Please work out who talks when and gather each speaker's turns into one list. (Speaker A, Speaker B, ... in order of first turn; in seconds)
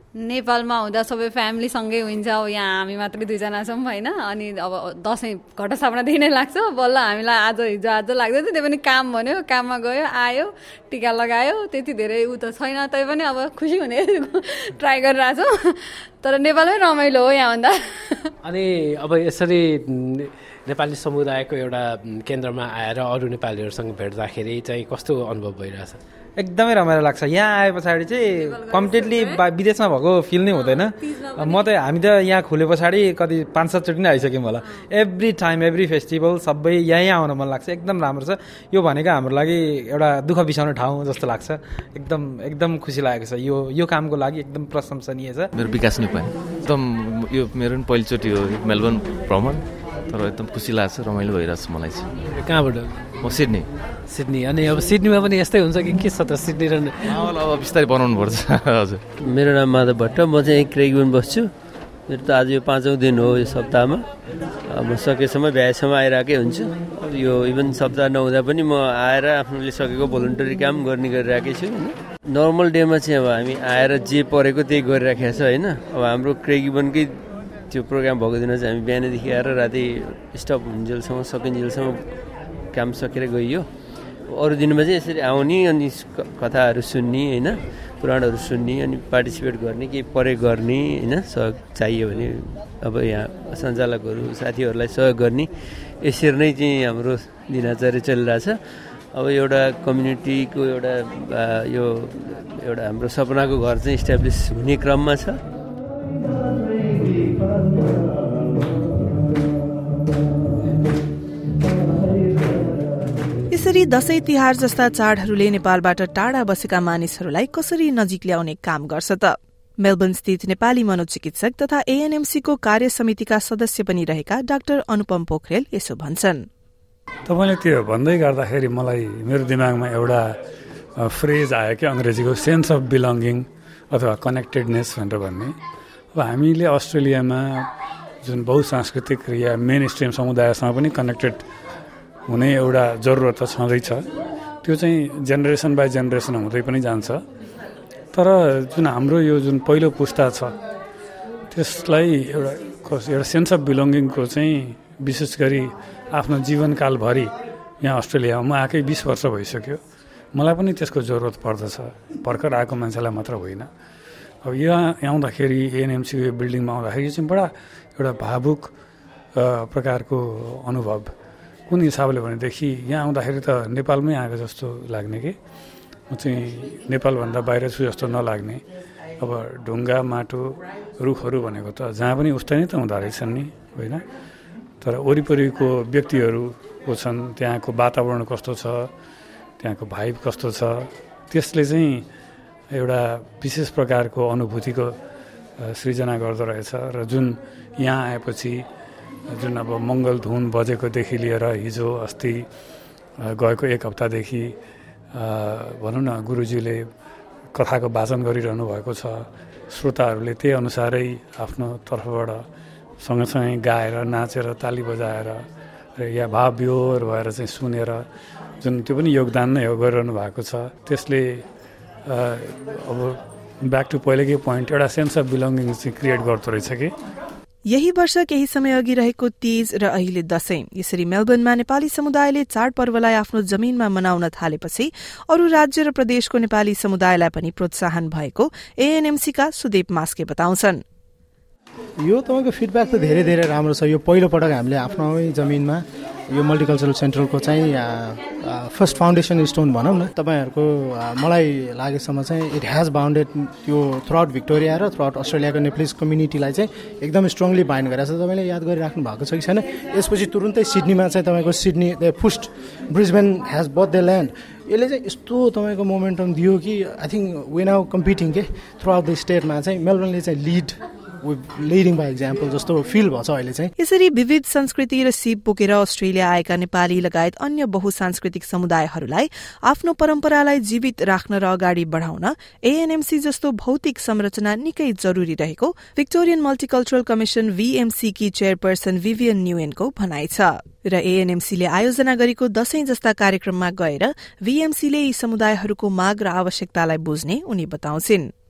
Speaker A: 0.2-15.5, 16.2-18.2, 28.7-29.3
Speaker B: 18.4-26.0, 52.3-53.2, 54.1-57.1
Speaker C: 26.4-45.5
Speaker D: 45.5-52.1, 53.2-53.7, 57.1-59.0
Speaker E: 59.2-61.5, 62.1-64.0, 64.7-77.1, 77.7-82.0, 82.7-83.7, 84.3-95.5, 96.0-98.6, 99.1-105.4
Speaker F: 113.5-126.5, 227.7-240.8, 273.8-298.3
Speaker G: 127.3-130.4, 131.0-135.5, 136.1-137.7, 138.2-141.4, 142.3-144.1, 144.6-147.2, 148.1-150.6, 151.5-159.8, 160.3-163.7, 164.4-168.7, 169.3-171.1, 171.7-175.3, 176.1-178.6, 179.2-184.0, 184.8-188.9, 189.6-192.1, 192.7-195.0, 195.6-198.7, 199.3-202.5, 203.2-204.6, 205.1-206.9, 207.5-212.5, 213.0-218.1, 218.6-221.4, 222.1-226.9
Speaker H: 242.0-273.7